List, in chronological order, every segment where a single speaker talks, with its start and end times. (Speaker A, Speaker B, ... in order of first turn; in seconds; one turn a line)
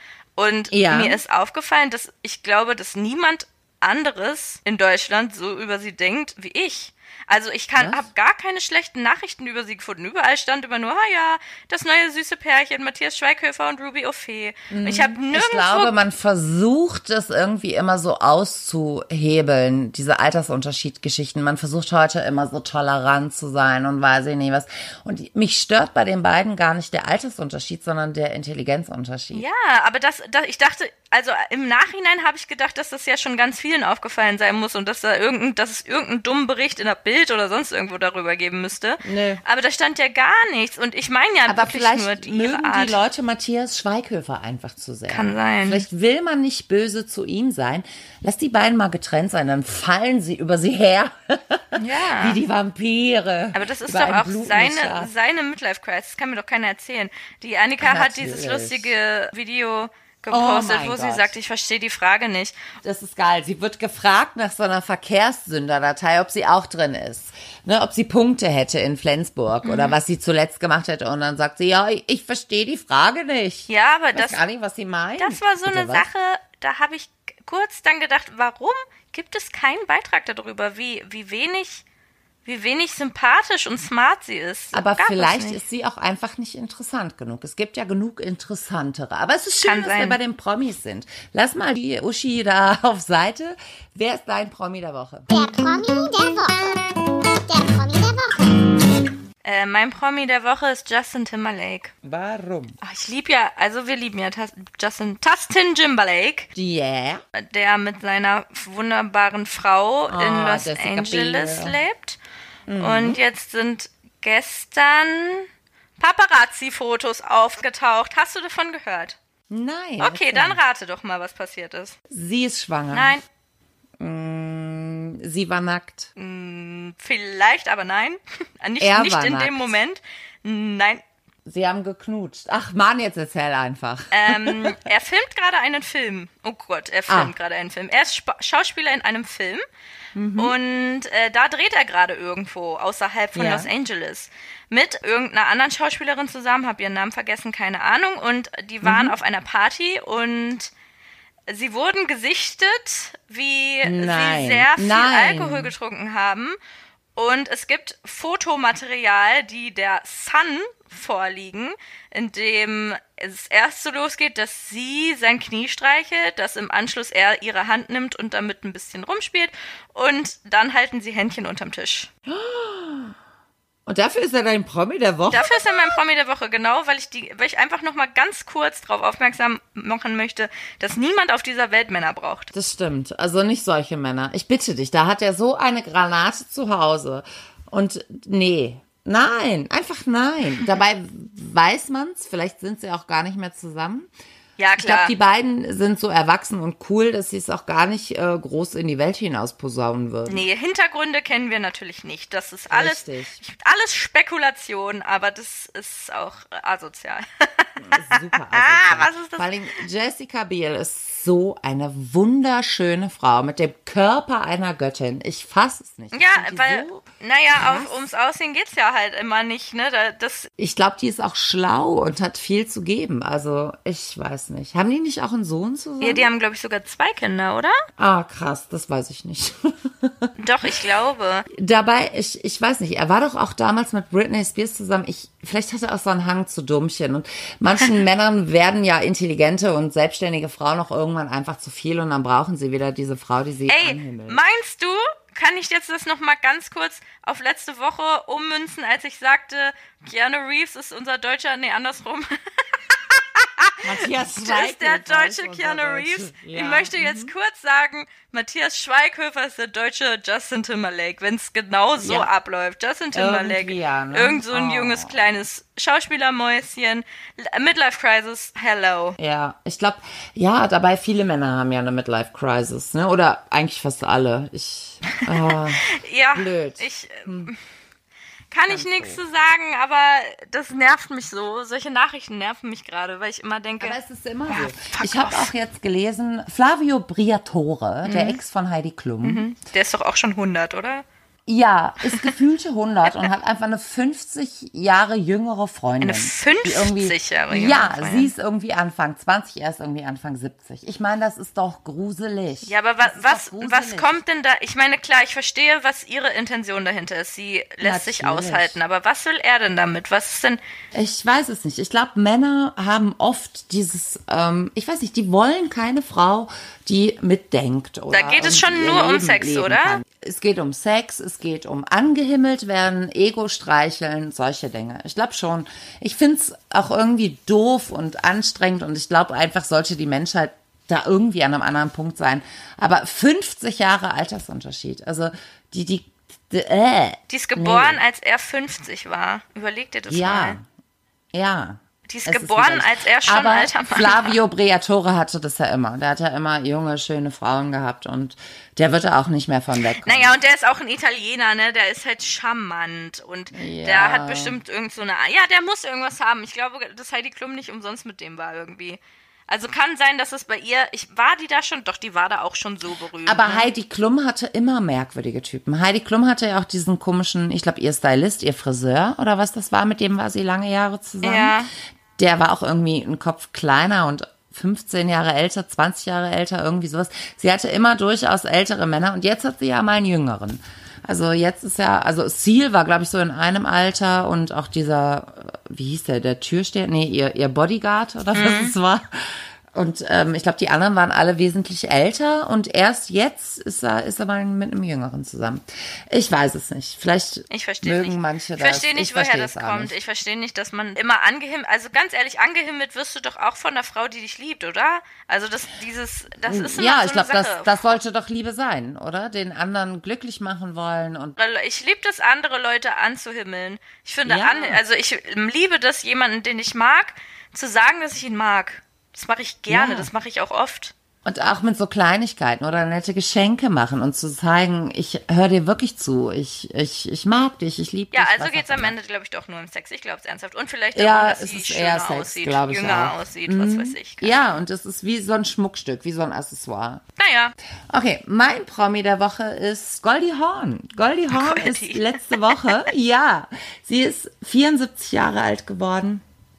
Speaker A: 0.4-15.9
Speaker B: 0.7-1.2
Speaker B: 7.8-8.1
Speaker B: 14.7-29.4
Speaker A: 29.3-43.0
Speaker B: 39.0-39.4
Speaker B: 41.5-55.1
Speaker A: 45.1-45.9
Speaker A: 51.8-52.4
Speaker A: 53.5-62.7
Speaker B: 57.8-58.9
Speaker B: 60.3-61.4
Speaker B: 62.8-76.1
Speaker A: 69.6-70.0
Speaker A: 73.7-74.4
Speaker A: 75.2-81.8
Speaker A: 82.5-85.6
Speaker B: 84.7-95.3
Speaker A: 89.6-90.2
Speaker C: 95.3-99.0
Speaker A: 99.4-101.9
Speaker B: 102.0-102.8
Speaker A: 102.8-106.5
Speaker B: 106.5-107.2
Speaker A: 107.3-112.2
Speaker B: 110.1-111.8
Speaker B: 112.7-113.2
Speaker A: 112.8-115.5
Speaker A: 116.0-119.2
Speaker B: 119.5-120.6
Speaker A: 120.0-122.0
Speaker B: 122.1-123.2
Speaker A: 122.9-123.2
Speaker B: 124.0-126.1
Speaker A: 126.2-131.0
Speaker B: 128.8-129.7
Speaker B: 131.5-134.8
Speaker A: 134.1-139.7
Speaker B: 137.1-137.3
Speaker B: 140.2-140.5
Speaker A: 140.4-150.7
Speaker B: 143.3-143.7
Speaker B: 148.8-149.2
Speaker A: 151.5-156.6
Speaker B: 153.8-155.7
Speaker A: 157.2-172.1
Speaker B: 172.3-173.2
Speaker B: 173.9-176.0
Speaker A: 175.3-182.5
Speaker B: 182.5-194.1
Speaker A: 194.6-195.1
Speaker B: 194.8-200.4
Speaker A: 200.3-209.5
Speaker B: 202.7-203.4
Speaker B: 207.8-218.1
Speaker A: 216.1-220.5
Speaker B: 220.6-226.3
Speaker A: 226.0-227.8
Speaker B: 228.0-230.3
Speaker A: 230.4-231.5
Speaker B: 231.5-244.4
Speaker A: 243.7-269.2
Speaker B: 253.8-257.3
Speaker B: 262.0-262.3
Speaker B: 263.1-265.2
Speaker B: 269.2-277.5
Speaker A: 275.2-277.6
Speaker A: 278.5-285.5
Speaker B: 278.7-279.2
Speaker B: 283.8-289.4
Speaker A: 288.0-288.4
Speaker A: 289.2-291.1
Speaker B: 291.5-304.1
Speaker A: 296.0-298.3
Speaker A: 302.6-310.6
Speaker B: 307.8-308.8
Speaker B: 310.9-338.0
Speaker A: 318.1-320.0
Speaker A: 337.3-340.6
Speaker B: 340.1-340.6
Speaker B: 341.3-350.4
Speaker A: 342.1-344.4
Speaker A: 350.0-363.7
Speaker B: 353.5-354.6
Speaker B: 363.3-371.6
Speaker A: 371.2-371.7
Speaker B: 372.2-399.9
Speaker A: 388.3-388.7
Speaker A: 397.5-408.0
Speaker B: 406.5-411.4
Speaker A: 411.4-420.9
Speaker B: 414.3-414.8
Speaker B: 419.7-420.1
Speaker B: 421.2-428.9
Speaker A: 428.1-434.4
Speaker B: 430.9-437.0
Speaker A: 437.2-437.6
Speaker B: 437.9-446.2
Speaker A: 441.3-442.9